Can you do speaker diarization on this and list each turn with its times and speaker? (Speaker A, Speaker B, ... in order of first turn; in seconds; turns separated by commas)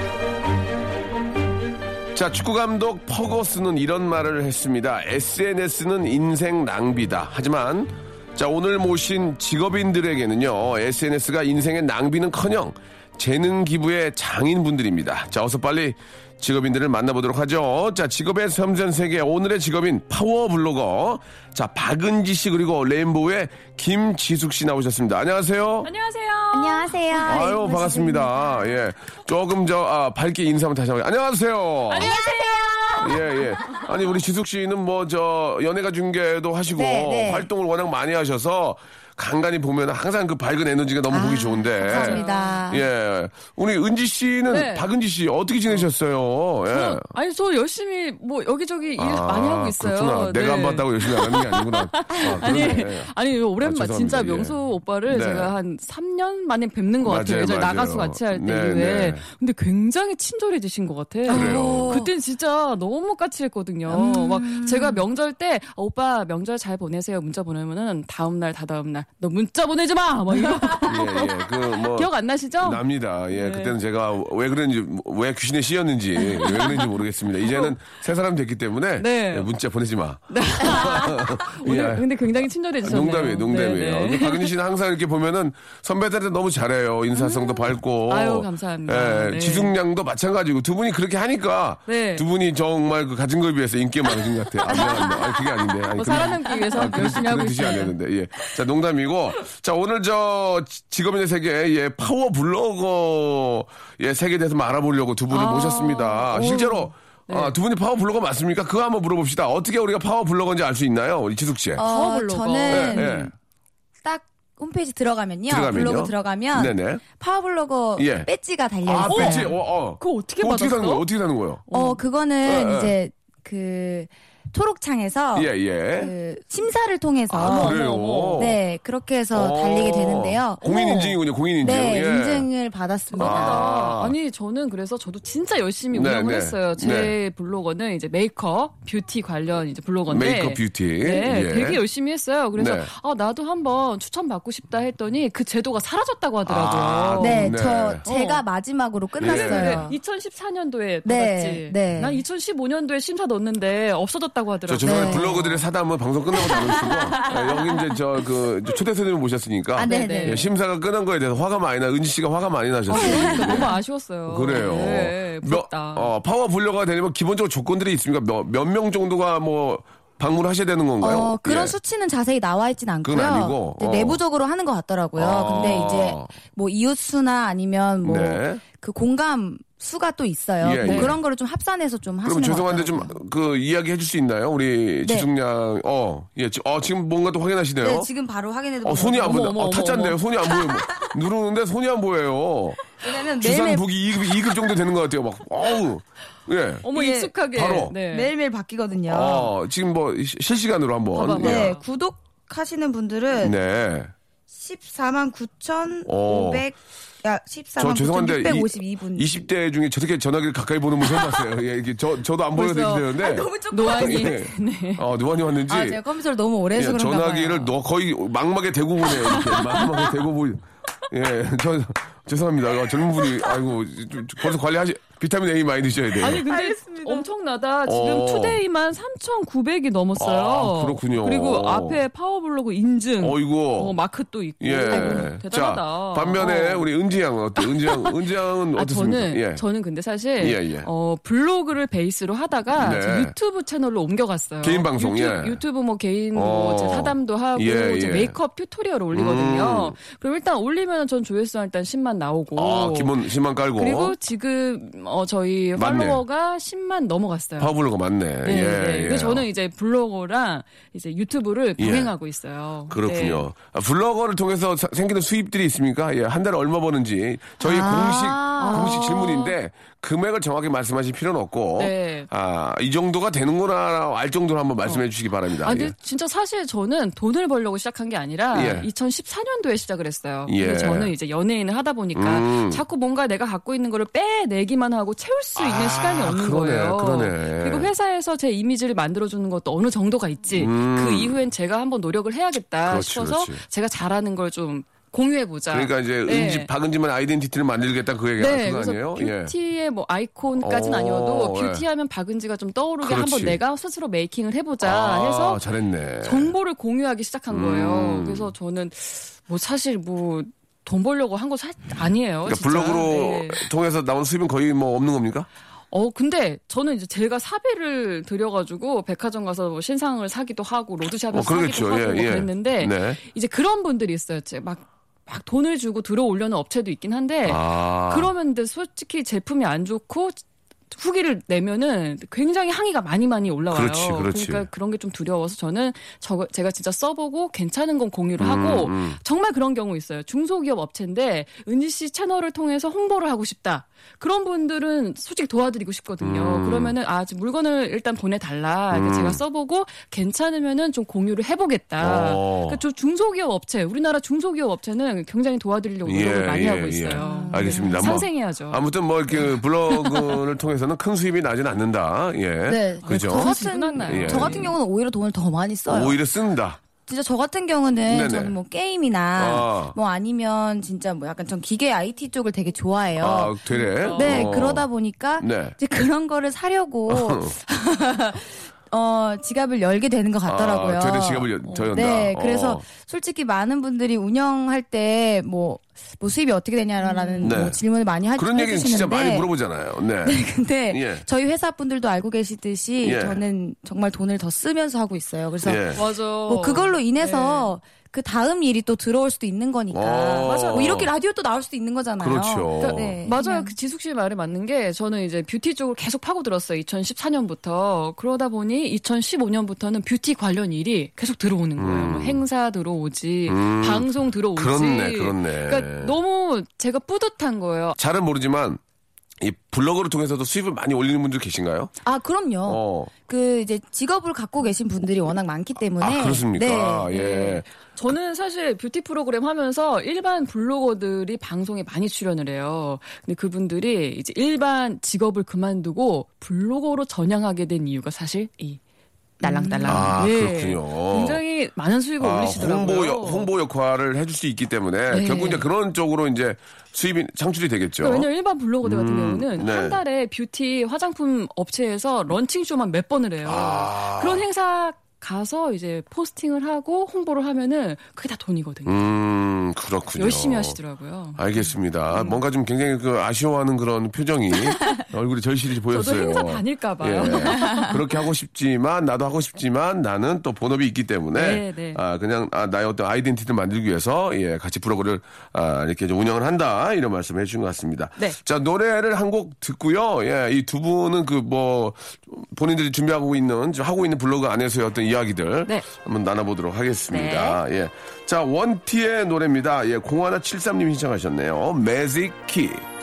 Speaker A: 2.1-25.9, Speaker B: 25.8-27.5, Speaker C: 26.5-28.5, Speaker A: 27.3-32.2, Speaker B: 31.9-33.9, Speaker C: 32.0-33.4, Speaker A: 33.0-47.1, Speaker C: 36.8-37.5, Speaker C: 41.1-42.9, Speaker B: 41.9-42.6, Speaker B: 44.5-44.9, Speaker B: 46.7-73.8, Speaker A: 49.0-55.5, Speaker A: 57.0-59.2, Speaker C: 61.3-62.1, Speaker A: 61.3-62.0, Speaker C: 63.9-65.0, Speaker C: 70.3-70.9, Speaker A: 70.9-82.1, Speaker B: 76.2-76.9, Speaker B: 77.4-77.8, Speaker B: 79.0-79.5, Speaker B: 80.3-84.5, Speaker A: 82.8-111.8, Speaker B: 87.1-89.8, Speaker B: 91.9-92.2, Speaker C: 94.7-95.4, Speaker B: 94.7-95.2, Speaker B: 95.9-97.9, Speaker C: 96.7-97.1, Speaker B: 105.3-106.5, Speaker C: 106.3-106.9, Speaker B: 107.3-107.5, Speaker C: 111.8-113.3, Speaker B: 111.8-113.3, Speaker A: 112.7-113.3, Speaker C: 114.0-119.5, Speaker A: 115.5-117.0, Speaker A: 118.0-118.3, Speaker A: 118.8-121.6, Speaker B: 119.1-121.0, Speaker B: 121.7-122.0, Speaker C: 121.7-127.8, Speaker A: 122.4-122.9, Speaker A: 125.3-126.1, Speaker B: 127.3-128.5, Speaker A: 127.4-128.6, Speaker C: 128.4-133.7, Speaker A: 129.3-132.5, Speaker B: 130.7-130.9, Speaker B: 133.2-148.4, Speaker A: 133.2-134.1, Speaker A: 135.9-137.2, Speaker A: 140.1-141.8, Speaker A: 142.6-142.9, Speaker A: 146.5-148.1, Speaker C: 147.2-150.0, Speaker B: 149.2-155.6, Speaker A: 149.2-149.8, Speaker C: 151.1-152.2, Speaker A: 154.7-163.7, Speaker C: 154.8-155.4, Speaker C: 156.3-157.9, Speaker C: 159.8-160.5, Speaker B: 159.9-160.4, Speaker B: 162.9-166.1, Speaker C: 162.9-163.7, Speaker A: 164.3-171.8, Speaker C: 171.0-183.2, Speaker A: 173.0-174.2, Speaker A: 175.2-176.3, Speaker A: 178.0-178.6, Speaker A: 180.6-181.2, Speaker B: 180.8-181.1, Speaker A: 182.2-188.1, Speaker C: 185.0-185.3, Speaker C: 187.8-189.5, Speaker A: 188.8-196.9, Speaker B: 189.2-190.2, Speaker C: 193.0-194.5, Speaker B: 196.8-198.3, Speaker C: 196.9-197.3, Speaker A: 197.5-197.9, Speaker C: 198.1-199.5, Speaker A: 199.1-201.7, Speaker B: 201.1-201.8, Speaker C: 201.4-203.6, Speaker A: 203.4-204.1, Speaker C: 204.5-209.4, Speaker A: 206.1-206.7, Speaker A: 207.8-216.0, Speaker B: 212.6-213.1, Speaker C: 213.1-214.4, Speaker B: 213.7-215.0, Speaker C: 215.7-217.7, Speaker A: 216.8-226.5, Speaker B: 226.2-236.9, Speaker C: 226.3-227.3, Speaker A: 227.9-228.6, Speaker A: 230.2-232.0, Speaker A: 233.2-234.0, Speaker A: 234.6-239.6, Speaker C: 234.9-235.3, Speaker B: 237.6-238.2, Speaker B: 238.8-253.1, Speaker A: 240.4-240.9, Speaker A: 242.8-243.3, Speaker A: 244.6-245.6, Speaker A: 246.3-248.4, Speaker A: 249.1-250.0, Speaker A: 252.6-254.2, Speaker B: 253.8-257.7, Speaker A: 255.8-256.2, Speaker A: 257.6-259.5, Speaker B: 258.4-263.5, Speaker A: 261.8-262.1, Speaker A: 262.9-275.9, Speaker C: 267.6-269.1, Speaker B: 268.6-269.6, Speaker B: 271.8-272.3, Speaker B: 275.6-296.7, Speaker A: 278.5-278.9, Speaker A: 280.5-281.1, Speaker A: 282.1-282.8, Speaker A: 285.6-287.9, Speaker A: 290.5-291.4, Speaker A: 292.9-293.6, Speaker A: 295.7-299.5, Speaker B: 298.4-305.6, Speaker A: 300.6-301.9, Speaker A: 303.0-303.6, Speaker A: 304.8-306.5, Speaker B: 306.2-313.7, Speaker A: 307.5-308.5, Speaker A: 312.5-315.5, Speaker B: 315.9-330.4, Speaker A: 321.3-323.2, Speaker A: 327.4-328.3, Speaker B: 330.9-358.8, Speaker A: 333.7-334.7, Speaker A: 338.4-339.2, Speaker A: 346.2-346.9, Speaker A: 348.9-349.4, Speaker A: 352.0-352.8, Speaker A: 356.1-364.7, Speaker C: 357.2-358.2, Speaker B: 359.4-360.4, Speaker C: 362.7-366.2, Speaker B: 363.0-364.7, Speaker A: 365.9-366.8, Speaker C: 367.1-373.6, Speaker A: 368.1-368.6, Speaker A: 369.4-370.0, Speaker A: 373.2-374.9, Speaker B: 373.7-374.6, Speaker C: 374.1-389.5, Speaker A: 375.4-375.8, Speaker A: 377.1-377.5, Speaker A: 380.4-382.9, Speaker B: 381.7-381.9, Speaker B: 387.0-387.7, Speaker A: 387.4-387.8, Speaker A: 388.4-391.2, Speaker C: 390.2-403.8, Speaker A: 393.0-393.4, Speaker A: 395.6-396.0, Speaker B: 396.0-397.7, Speaker A: 399.9-401.1, Speaker B: 400.5-401.1, Speaker A: 402.2-403.2, Speaker B: 402.8-418.0, Speaker A: 411.8-412.4, Speaker A: 413.5-416.2, Speaker A: 418.0-418.8, Speaker A: 419.4-421.9, Speaker C: 422.0-427.1, Speaker A: 422.6-423.1, Speaker A: 426.0-427.7, Speaker B: 427.1-438.8, Speaker C: 439.4-440.2, Speaker B: 439.4-443.5, Speaker A: 439.9-441.4, Speaker A: 442.2-448.3, Speaker B: 445.1-445.7, Speaker B: 448.0-458.9, Speaker A: 448.8-450.0, Speaker A: 453.5-454.4, Speaker A: 458.9-460.8, Speaker B: 460.2-462.4, Speaker A: 461.4-492.8, Speaker B: 465.9-468.0, Speaker C: 467.3-467.8, Speaker B: 471.3-472.0, Speaker B: 487.1-487.6